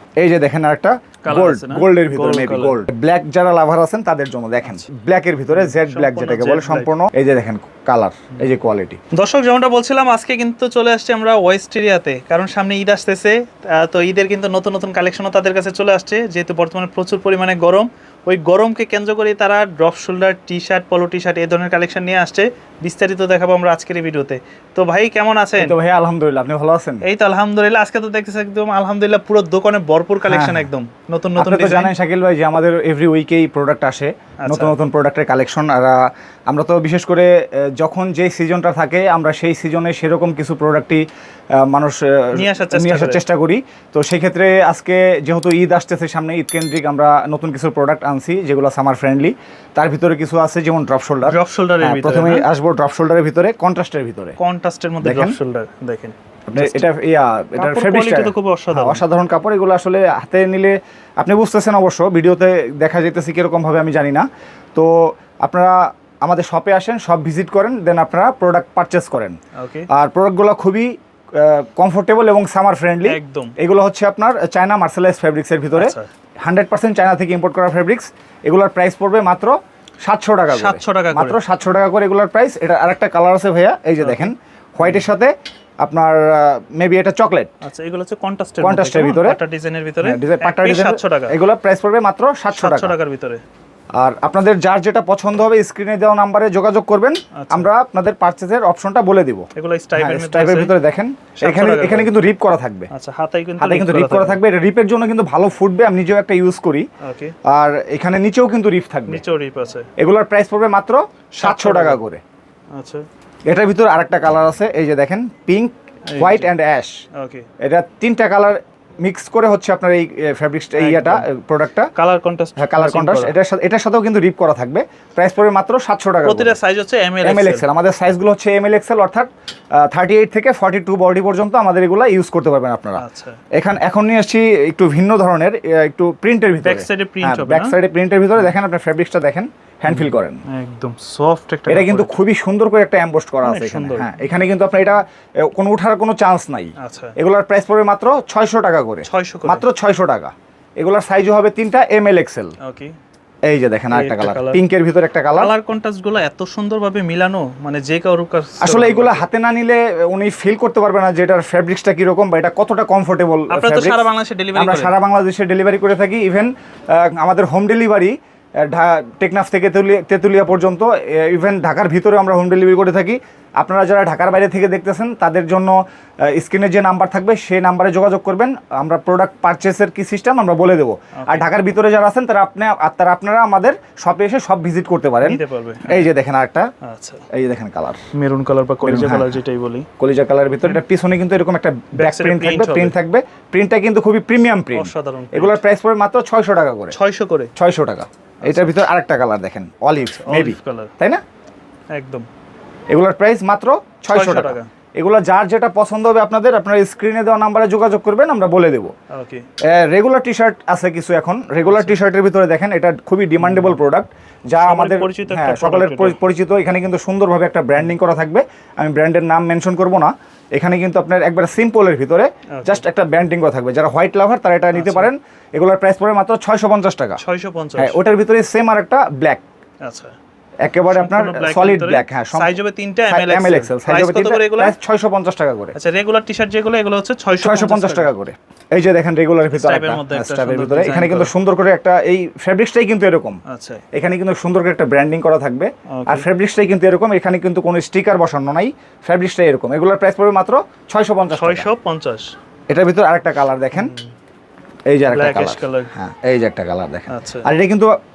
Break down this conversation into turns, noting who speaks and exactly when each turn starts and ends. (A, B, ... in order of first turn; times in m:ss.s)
0:00.2-0:09.0 A
0:01.2-0:02.8 B
0:05.5-0:07.0 B
0:09.1-0:25.8 B
0:25.6-0:27.0 A
0:27.0-0:31.9 B
0:30.3-0:30.7 A
0:31.4-0:41.0 A
0:34.4-0:34.8 B
0:41.6-0:54.4 A
0:42.3-0:43.2 B
0:51.2-0:52.5 B
0:54.4-0:56.9 B
0:55.0-0:55.4 A
0:56.5-1:09.4 A
0:57.6-0:59.0 B
1:09.6-1:09.9 B
1:09.9-1:27.5 A
1:13.0-1:13.6 B
1:15.8-1:16.1 B
1:20.5-1:21.4 B
1:24.0-1:25.0 B
1:27.6-1:31.4 B
1:28.6-1:29.4 A
1:30.0-1:33.0 A
1:32.5-1:33.4 B
1:34.0-1:42.9 A
1:37.4-1:37.7 B
1:39.6-1:40.8 B
1:41.4-1:42.2 B
1:42.9-1:44.4 B
1:43.6-1:46.9 A
1:47.0-1:47.4 B
1:47.4-1:49.2 A
1:49.1-1:49.9 B
1:50.0-1:52.2 A
1:51.3-1:52.0 B
1:52.8-1:53.1 B
1:53.5-1:57.0 A
1:56.1-1:56.5 B
1:57.1-1:57.5 B
1:57.6-2:01.9 A
2:00.8-2:01.3 B
2:02.0-2:03.4 B
2:02.6-2:06.6 A
2:06.2-2:07.7 B
2:07.2-2:13.0 A
2:13.0-2:13.4 B
2:13.6-2:20.4 A
2:16.6-2:17.8 B
2:19.9-2:22.2 B
2:21.7-2:32.6 A
2:23.4-2:24.1 B
2:26.8-2:27.2 B
2:29.1-2:29.7 B
2:32.6-2:33.0 B
2:33.5-2:35.5 A
2:33.9-2:34.6 B
2:35.4-2:39.3 B
2:38.6-2:44.0 A
2:43.5-2:45.0 B
2:44.6-3:06.7 A
3:01.2-3:01.5 B
3:05.2-3:06.1 B
3:06.8-3:07.3 B
3:07.3-3:08.0 A
3:08.1-3:09.9 B
3:08.8-3:09.4 A
3:10.0-3:17.0 A
3:12.0-3:13.0 B
3:14.7-3:15.6 B
3:16.9-3:17.5 B
3:17.6-3:21.2 A
3:18.4-3:18.8 B
3:20.2-3:20.9 B
3:21.9-3:22.3 B
3:22.9-3:28.9 A
3:24.1-3:24.7 B
3:29.1-3:29.5 B
3:29.6-3:47.2 A
3:31.6-3:32.0 B
3:33.4-3:33.8 B
3:34.6-3:36.2 B
3:42.6-3:42.8 B
3:44.7-3:45.1 B
3:47.2-3:48.0 B
3:47.8-3:49.4 A
3:49.8-3:50.2 B
3:50.6-3:55.8 A
3:50.9-3:54.8 B
3:55.8-3:58.1 B
3:57.4-4:03.4 A
3:59.5-4:01.3 B
4:03.5-4:03.8 B
4:03.9-4:11.7 A
4:05.9-4:06.3 B
4:11.3-4:12.3 B
4:12.7-4:13.9 A
4:13.7-4:14.1 B
4:14.9-4:17.9 A
4:15.1-4:15.9 B
4:17.1-4:17.5 B